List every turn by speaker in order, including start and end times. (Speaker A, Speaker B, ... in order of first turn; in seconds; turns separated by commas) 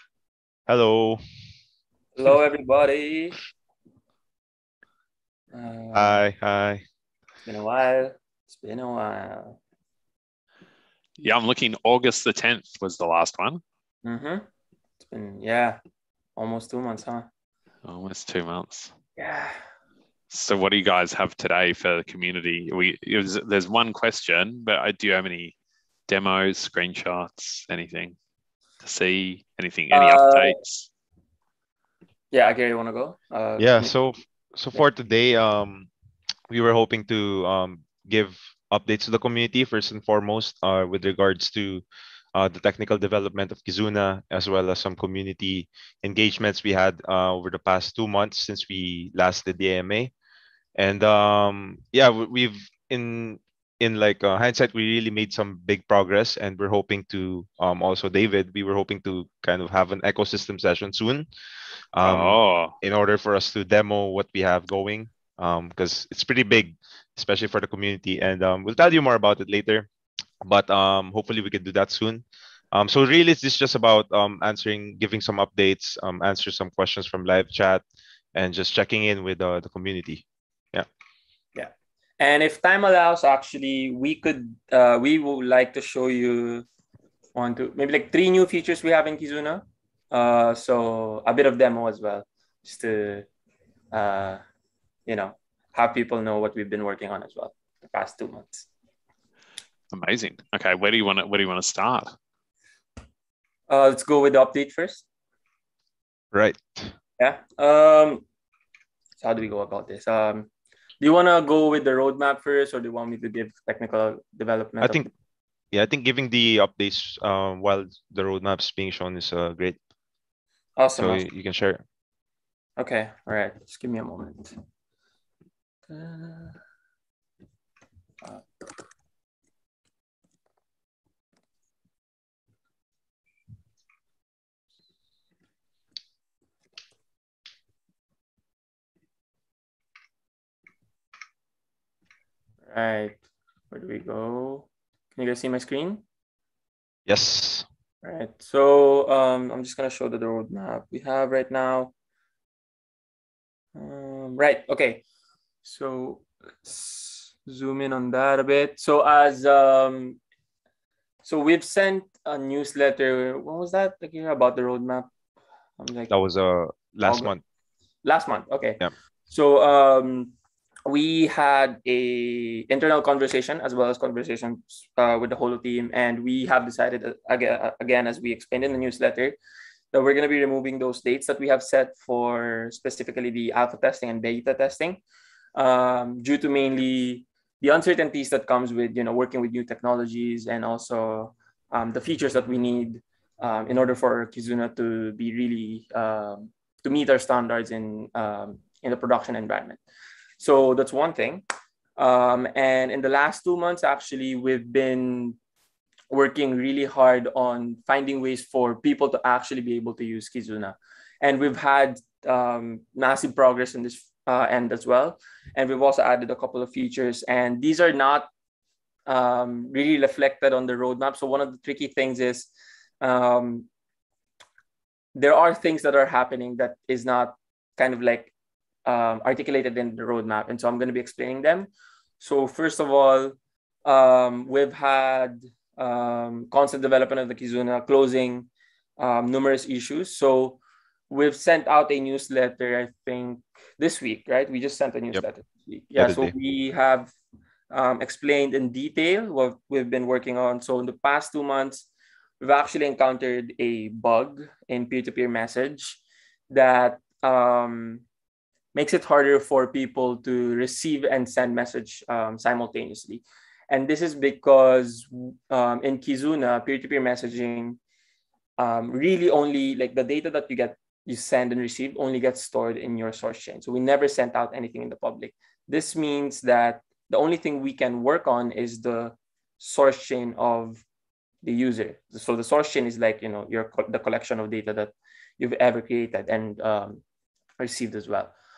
Speaker A: 0.7-1.2, Speaker B: 2.1-3.4, Speaker B: 5.5-6.2, Speaker A: 5.9-6.8, Speaker B: 7.5-9.6, Speaker C: 11.2-13.6, Speaker B: 14.0-14.4, Speaker B: 15.0-15.8, Speaker B: 16.4-17.3, Speaker C: 17.9-18.9, Speaker B: 19.2-19.6, Speaker C: 20.3-25.5, Speaker C: 26.1-28.1, Speaker C: 28.8-30.9, Speaker B: 29.9-30.6, Speaker B: 32.3-33.9, Speaker A: 33.6-35.9, Speaker A: 36.5-41.8, Speaker A: 42.3-50.1, Speaker A: 50.8-61.3, Speaker A: 61.9-69.9, Speaker C: 62.0-62.7, Speaker A: 70.4-77.8, Speaker A: 78.3-80.9, Speaker B: 81.5-86.7, Speaker B: 87.3-93.3, Speaker B: 93.9-94.4, Speaker B: 95.1-98.7, Speaker C: 99.9-102.1, Speaker B: 103.7-105.0, Speaker A: 106.3-106.9, Speaker B: 107.2-108.2, Speaker B: 109.2-110.5, Speaker B: 111.0-115.1, Speaker A: 114.8-115.1, Speaker A: 115.7-119.8, Speaker B: 120.8-121.2, Speaker A: 121.0-121.8, Speaker B: 122.8-124.5, Speaker B: 125.9-126.6, Speaker B: 142.7-143.2, Speaker B: 143.7-146.0, Speaker A: 147.1-147.7, Speaker B: 148.0-151.9, Speaker B: 153.7-155.0, Speaker B: 155.6-160.2, Speaker B: 161.2-165.1, Speaker B: 165.8-166.1, Speaker A: 166.1-167.4, Speaker B: 167.0-167.3, Speaker B: 168.0-170.3, Speaker B: 170.9-179.3, Speaker B: 179.9-185.0, Speaker B: 185.5-199.8, Speaker B: 200.4-201.4, Speaker B: 202.0-205.3, Speaker B: 206.1-218.3, Speaker B: 219.1-222.5, Speaker B: 223.0-223.7, Speaker B: 225.1-228.3, Speaker B: 228.8-247.1, Speaker A: 246.0-246.3, Speaker B: 247.7-251.8, Speaker B: 252.4-258.0, Speaker B: 258.7-267.8, Speaker B: 268.6-280.8, Speaker B: 281.4-287.0, Speaker B: 287.6-288.3